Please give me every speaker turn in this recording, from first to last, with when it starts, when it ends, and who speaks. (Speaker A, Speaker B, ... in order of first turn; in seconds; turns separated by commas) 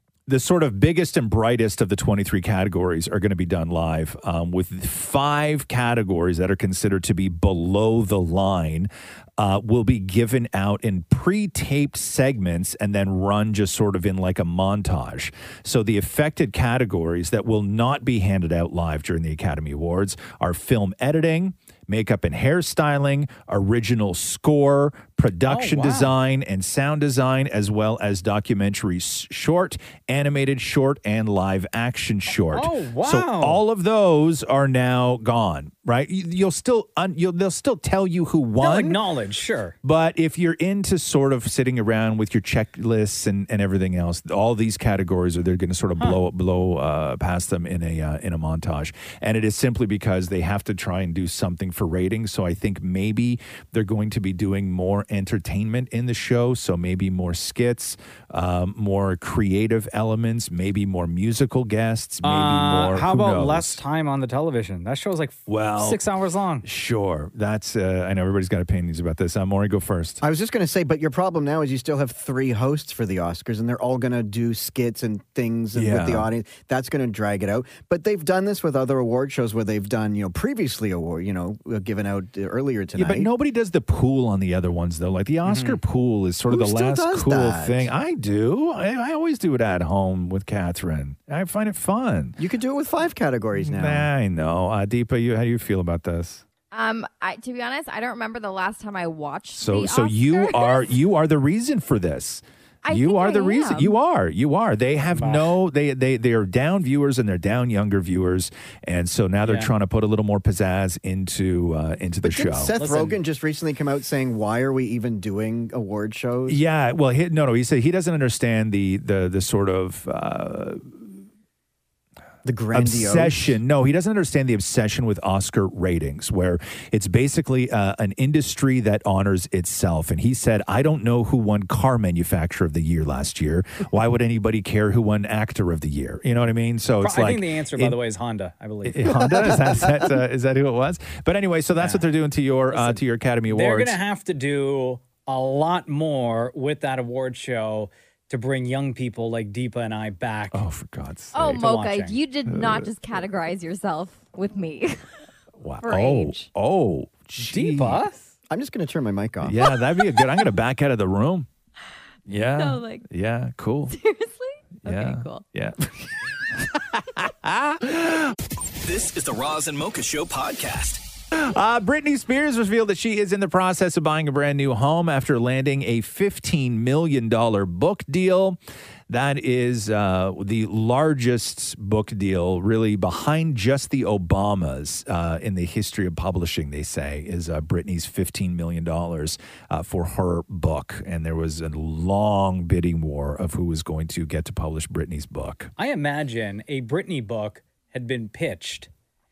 Speaker A: 0.3-39.0, Speaker B: 25.5-26.1, Speaker B: 32.5-33.6, Speaker B: 38.6-39.8, Speaker A: 39.8-63.8, Speaker B: 62.2-66.6, Speaker A: 65.5-66.0, Speaker A: 66.6-70.2, Speaker C: 70.2-83.3, Speaker A: 75.7-76.3, Speaker A: 82.9-92.4, Speaker B: 85.5-85.8, Speaker C: 86.5-87.9, Speaker C: 92.4-94.1, Speaker A: 93.5-96.4, Speaker D: 96.7-100.9, Speaker A: 99.5-112.7, Speaker D: 102.8-103.9, Speaker B: 105.1-105.5, Speaker B: 109.4-109.7, Speaker C: 112.2-116.6, Speaker B: 112.8-113.2, Speaker A: 116.5-121.1, Speaker C: 122.4-123.5, Speaker A: 122.7-138.0, Speaker B: 137.0-139.8, Speaker A: 138.8-144.0, Speaker B: 141.8-142.0, Speaker B: 142.7-150.6, Speaker A: 150.5-151.6, Speaker D: 151.3-155.0, Speaker B: 151.5-152.2, Speaker A: 152.5-152.9, Speaker A: 155.6-158.0, Speaker D: 155.8-156.5, Speaker B: 157.5-158.3, Speaker C: 158.5-159.6, Speaker A: 159.4-161.5, Speaker A: 162.3-163.9, Speaker D: 162.6-163.0, Speaker D: 163.9-165.4, Speaker A: 164.8-166.1, Speaker A: 166.7-168.3, Speaker E: 168.8-171.0, Speaker A: 171.3-195.7, Speaker B: 195.8-198.9